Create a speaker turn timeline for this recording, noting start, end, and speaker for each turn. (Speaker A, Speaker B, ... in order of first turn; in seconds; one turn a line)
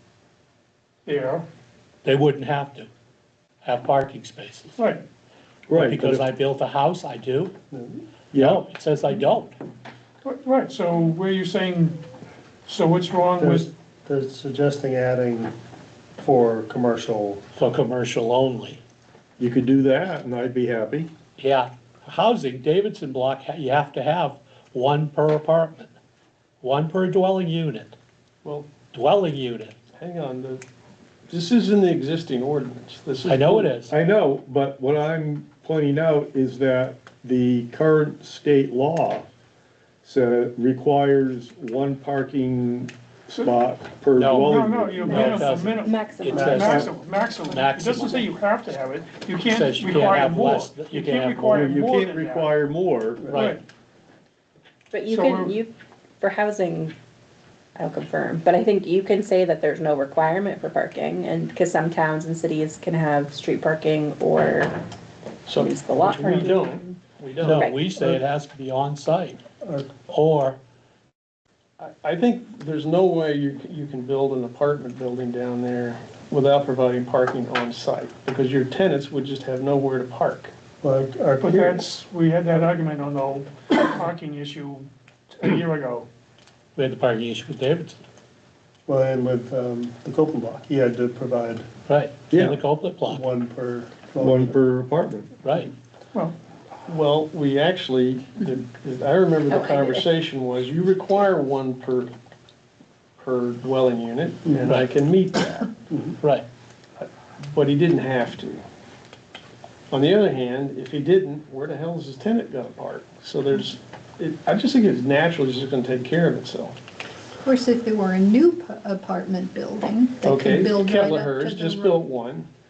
Speaker A: 1.1-1.4
Speaker B: 2.0-2.9
Speaker B: 3.6-4.8
Speaker A: 4.8-5.0
Speaker C: 5.7-6.3
Speaker B: 5.7-7.5
Speaker D: 7.7-8.0
Speaker C: 8.3-8.6
Speaker B: 8.3-9.6
Speaker A: 10.2-12.0
Speaker A: 12.7-13.7
Speaker D: 13.4-15.5
Speaker D: 16.2-17.4
Speaker B: 17.6-18.8
Speaker C: 19.4-21.1
Speaker B: 21.4-25.9
Speaker B: 26.6-28.0
Speaker E: 28.4-28.7
Speaker B: 28.9-29.7
Speaker E: 29.9-30.6
Speaker E: 31.3-33.8
Speaker B: 33.2-33.9
Speaker C: 33.9-39.3
Speaker C: 40.0-45.1
Speaker B: 44.2-46.9
Speaker A: 44.4-52.5
Speaker F: 45.1-46.4
Speaker D: 46.3-46.8
Speaker B: 47.5-48.3
Speaker B: 49.5-51.7
Speaker C: 51.5-53.2
Speaker B: 53.3-53.6
Speaker A: 53.3-53.6
Speaker F: 54.9-56.9
Speaker A: 55.1-55.5
Speaker F: 57.8-64.8
Speaker E: 65.5-67.7
Speaker F: 65.5-66.7
Speaker B: 67.4-69.4
Speaker F: 67.5-67.8
Speaker D: 67.9-68.2
Speaker D: 69.6-69.9
Speaker B: 70.1-70.6
Speaker E: 71.8-80.5
Speaker D: 80.8-81.5
Speaker A: 81.4-86.1
Speaker B: 86.8-88.0
Speaker D: 88.9-91.7
Speaker B: 91.9-93.2
Speaker C: 92.3-92.6
Speaker D: 93.0-94.5
Speaker C: 94.2-95.3
Speaker B: 95.4-95.7
Speaker E: 96.9-102.1
Speaker F: 99.5-100.1
Speaker E: 103.2-105.7
Speaker D: 104.4-104.7
Speaker D: 105.9-106.2
Speaker B: 106.2-106.5
Speaker E: 107.0-108.6
Speaker E: 109.9-116.8
Speaker G: 117.4-122.0
Speaker E: 120.2-122.5